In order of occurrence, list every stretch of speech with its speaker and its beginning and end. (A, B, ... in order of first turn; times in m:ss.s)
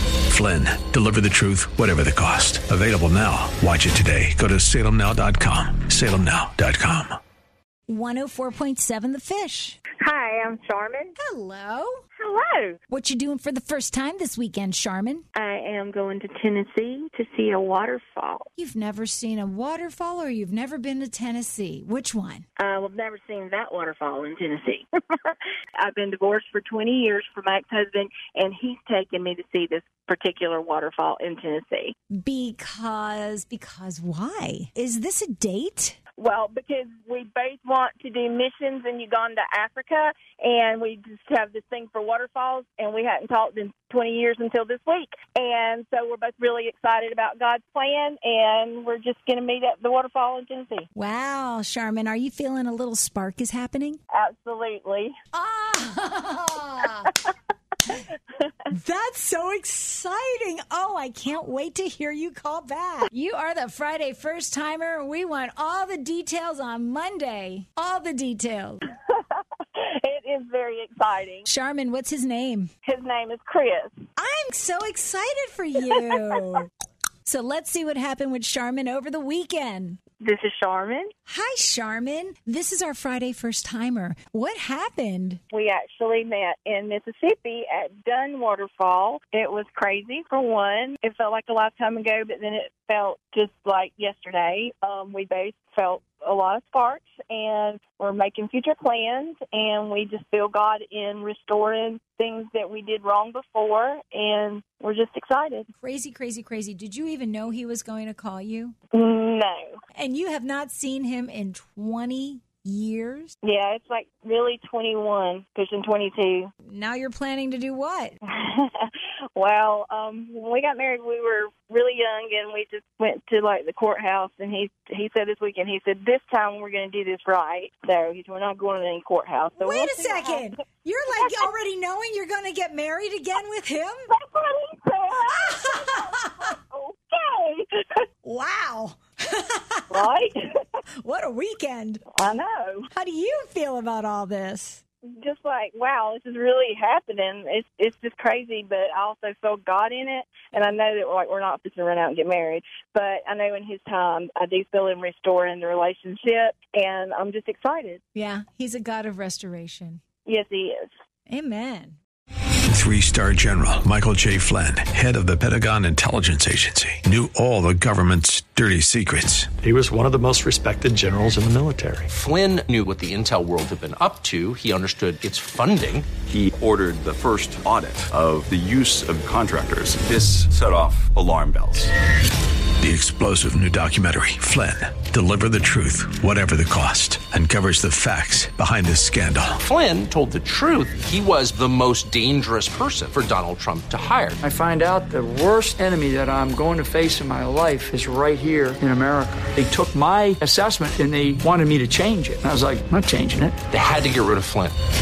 0:00.3-0:07.2 A
0:07.9-0:09.8 B
0:10.0-0:11.1 C
0:11.2-0:12.0 B
0:12.2-0:12.8 C
0:12.9-0:15.2 B
0:15.3-0:18.4 C
0:18.6-0:22.4 B
0:22.6-0:31.9 C
0:32.1-0:36.0 B
0:36.2-0:50.9 C
0:50.9-0:54.0 B
0:54.1-0:55.2 C
0:55.3-0:57.1 B
0:58.7-1:08.8 B
1:09.1-1:11.4 C
1:11.4-1:12.7 B
1:12.8-1:13.9 C
1:14.2-1:16.7 B
1:17.2-1:20.0 B
1:20.2-1:21.1 C
1:21.3-1:25.4 B
1:25.5-1:45.7 C
1:45.8-1:48.8 B
1:48.9-1:49.8 C
1:50.0-1:53.3 B
1:53.4-1:56.5 C
1:56.7-1:58.1 B
1:58.3-2:10.5 C
2:09.6-2:14.0 B
2:14.1-2:18.0 C
2:15.3-2:16.5 B
2:18.2-2:20.0 B
2:19.9-2:20.4 C
2:21.0-2:22.0 B
2:22.1-2:22.9 C
2:22.9-2:24.8 B
2:25.1-2:38.0 C
2:38.1-2:40.0 B
2:40.2-2:40.8 C
2:41.3-2:42.0 B
2:42.7-2:49.5 A
2:49.6-2:52.1 D
2:52.1-2:56.1 E
2:56.3-3:01.9 F
3:02.8-3:09.6 A
3:09.6-3:14.4 E
3:14.4-3:23.6 G
3:23.7-3:24.7 E